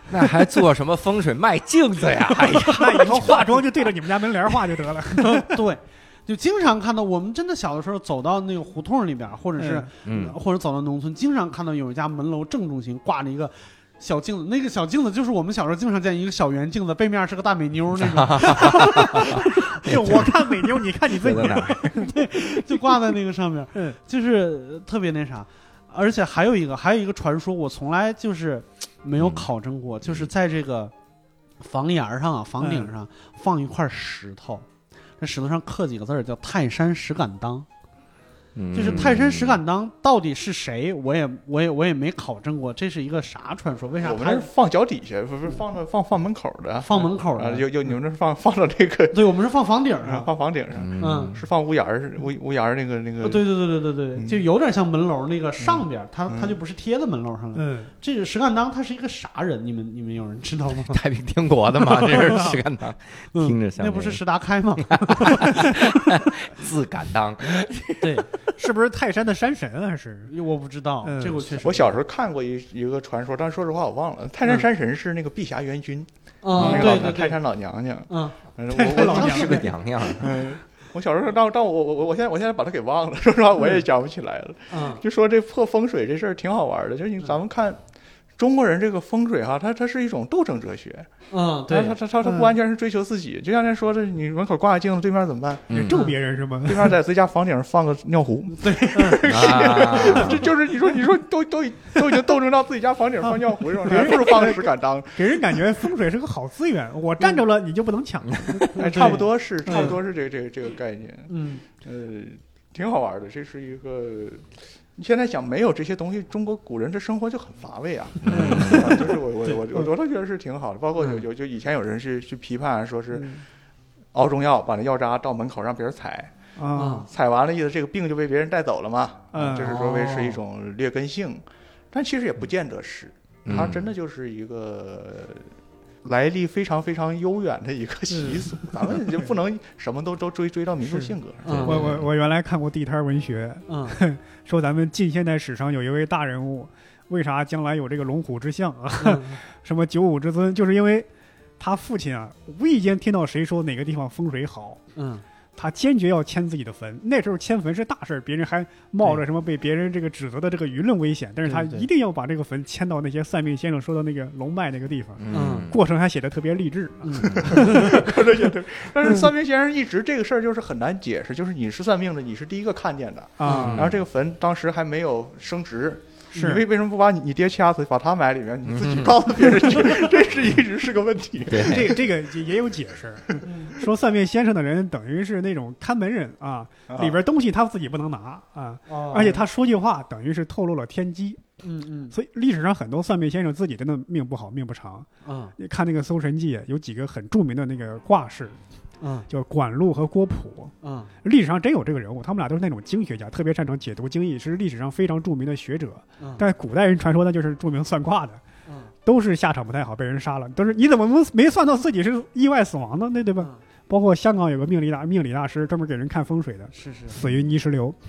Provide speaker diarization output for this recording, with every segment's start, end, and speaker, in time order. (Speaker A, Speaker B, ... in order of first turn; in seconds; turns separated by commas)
Speaker A: 0.1-3.9, Speaker B: 2.4-3.4, Speaker C: 2.7-5.6, Speaker B: 5.2-19.5, Speaker C: 9.6-9.9, Speaker A: 10.0-10.4, Speaker A: 18.0-22.1, Speaker C: 18.5-22.1, Speaker B: 21.9-30.9, Speaker A: 29.2-29.5, Speaker B: 31.6-34.7, Speaker C: 32.6-32.9, Speaker B: 35.2-37.7, Speaker A: 38.5-39.6, Speaker B: 38.7-44.5, Speaker D: 44.0-49.2, Speaker B: 46.8-47.7, Speaker B: 49.1-50.3, Speaker D: 50.0-53.5, Speaker A: 50.8-51.4, Speaker B: 51.0-51.4, Speaker B: 53.2-61.0, Speaker D: 54.1-54.4, Speaker D: 56.3-56.6, Speaker C: 57.5-57.9, Speaker A: 60.9-64.2, Speaker B: 61.9-62.5, Speaker C: 62.2-62.6, Speaker B: 63.3-65.8, Speaker A: 64.8-68.3, Speaker B: 68.0-68.3, Speaker C: 68.6-70.3, Speaker B: 70.3-72.0, Speaker C: 71.0-71.5, Speaker D: 71.6-87.8, Speaker B: 76.4-77.4, Speaker A: 76.6-77.2, Speaker B: 78.1-78.4, Speaker C: 78.7-79.7, Speaker A: 78.8-80.4, Speaker B: 79.3-79.6, Speaker B: 84.7-85.0, Speaker D: 88.4-91.1, Speaker B: 91.3-92.0, Speaker D: 91.7-95.8, Speaker C: 92.2-92.5, Speaker A: 95.7-96.0, Speaker C: 95.7-97.0, Speaker B: 95.9-96.2, Speaker D: 96.6-105.7, Speaker B: 98.5-100.0, Speaker A: 99.2-100.5, Speaker C: 103.8-110.0, Speaker A: 108.3-108.6, Speaker B: 108.8-110.0, Speaker D: 108.8-123.4, Speaker B: 111.3-111.6, Speaker A: 118.2-119.0, Speaker B: 118.4-118.9, Speaker C: 118.6-118.9, Speaker C: 123.1-123.4, Speaker D: 124.1-126.3, Speaker C: 126.6-127.1, Speaker B: 126.7-127.1, Speaker D: 127.0-135.5, Speaker C: 129.3-129.8, Speaker B: 129.5-130.4, Speaker A: 133.4-133.9, Speaker D: 136.0-141.7, Speaker C: 138.1-139.2, Speaker C: 140.8-151.1, Speaker B: 141.4-141.9, Speaker A: 141.4-142.1, Speaker B: 143.7-144.0, Speaker B: 149.0-149.4, Speaker C: 151.6-154.8, Speaker B: 155.0-155.2, Speaker C: 155.6-168.2, Speaker B: 161.4-161.9, Speaker A: 165.2-165.8, Speaker B: 165.3-165.7, Speaker B: 167.0-167.9, Speaker D: 167.5-182.0, Speaker C: 173.4-173.9, Speaker B: 173.4-173.8, Speaker A: 173.5-174.0, Speaker C: 176.3-176.6, Speaker A: 178.7-179.2, Speaker A: 181.5-182.0, Speaker C: 181.6-191.4, Speaker B: 183.4-183.7, Speaker D: 186.9-187.2, Speaker B: 188.9-189.4, Speaker B: 191.6-192.1, Speaker C: 192.1-198.6, Speaker B: 195.2-195.5, Speaker B: 199.0-199.3, Speaker C: 199.3-208.4, Speaker B: 200.8-201.1, Speaker B: 208.7-208.9, Speaker C: 209.1-218.0, Speaker B: 216.7-217.2